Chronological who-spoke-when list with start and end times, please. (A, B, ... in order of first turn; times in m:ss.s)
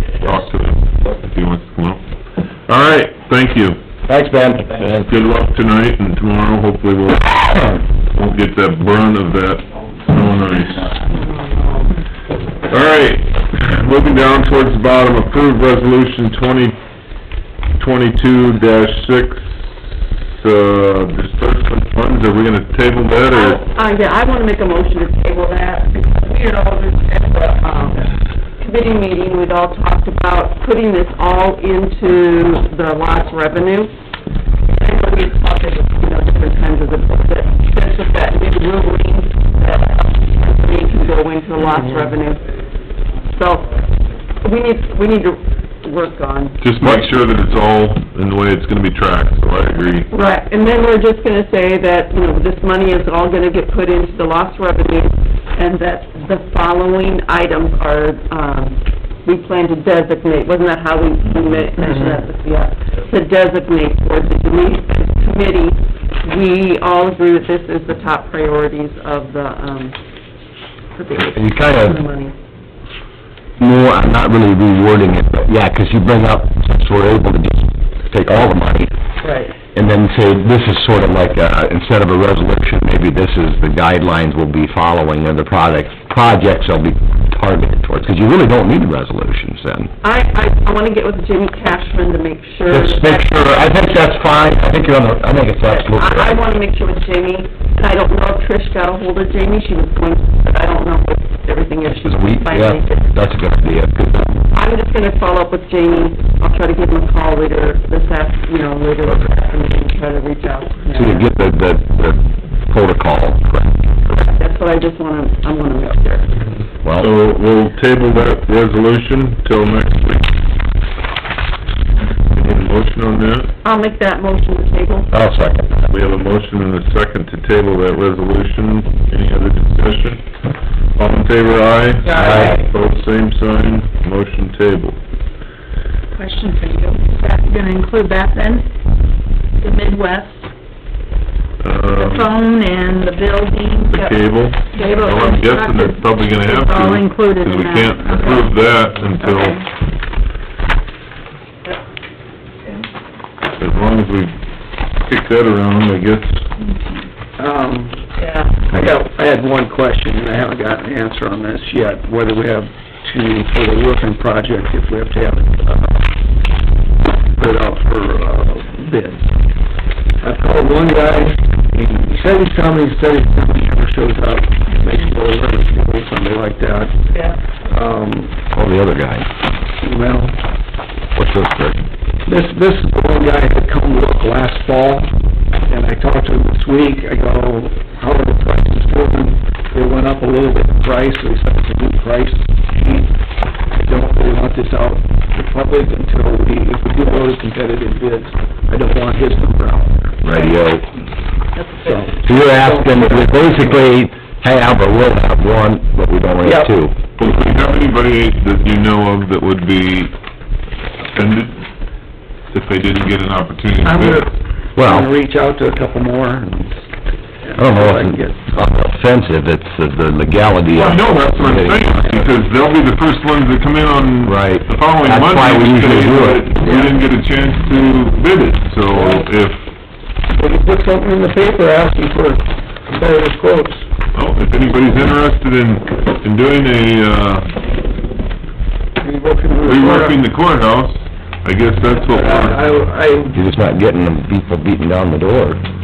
0:00.2-0:02.0 A
0:00.2-0:00.5 B
0:02.7-0:03.8 A
0:04.1-0:05.1 B
0:04.8-0:11.0 A
0:11.0-0:12.0 C
0:12.7-0:16.8 A
0:17.8-0:23.6 A
0:23.2-0:33.9 C
0:34.7-0:42.4 C
0:43.3-0:43.8 C
0:44.4-0:47.0 C
0:46.6-0:50.1 A
0:50.1-1:10.0 C
1:11.0-1:12.4 C
1:11.2-1:12.0 B
1:13.6-1:18.9 B
1:19.2-1:19.6 C
1:19.7-1:29.9 B
1:30.0-1:33.5 C
1:32.7-1:36.4 B
1:35.7-1:43.1 C
1:42.0-1:44.4 B
1:44.5-1:51.4 C
1:50.9-1:53.8 B
1:54.1-1:56.3 C
1:56.8-1:57.2 B
1:57.0-2:00.3 A
2:02.3-2:03.5 A
2:03.6-2:05.1 C
2:05.1-2:05.8 B
2:05.9-2:10.2 A
2:11.0-2:15.0 A
2:12.1-2:12.6 C
2:12.1-2:12.6 B
2:16.2-2:18.7 D
2:19.6-2:20.4 D
2:21.6-2:22.3 A
2:21.9-2:24.1 D
2:23.9-2:29.6 A
2:24.7-2:28.6 D
2:29.2-2:29.6 D
2:33.6-2:34.4 A
2:35.0-2:36.5 A
2:37.4-2:38.0 E
2:38.2-2:38.5 C
2:38.7-2:46.0 E
2:47.4-2:49.2 E
2:50.2-2:57.0 E
2:57.7-2:58.4 E
2:58.5-2:59.3 B
2:59.8-3:00.4 E
3:01.2-3:01.8 B
3:02.2-3:13.1 E
3:13.8-3:20.3 E
3:20.2-3:20.9 B
3:21.8-3:23.8 E
3:22.2-3:27.0 B
3:26.4-3:26.7 E
3:27.2-3:30.1 A
3:31.1-3:31.6 A
3:32.5-3:34.3 A
3:33.8-3:36.8 E
3:34.8-3:35.1 B
3:37.4-3:38.6 E
3:37.6-3:42.0 B
3:40.7-3:49.7 A
3:42.0-3:42.3 E
3:44.2-3:46.5 B
3:48.9-3:49.3 E
3:50.3-3:53.9 E
3:54.1-3:57.5 A
3:59.0-4:00.2 E
3:59.6-4:02.6 A
4:01.9-4:03.4 E
4:03.3-4:05.6 B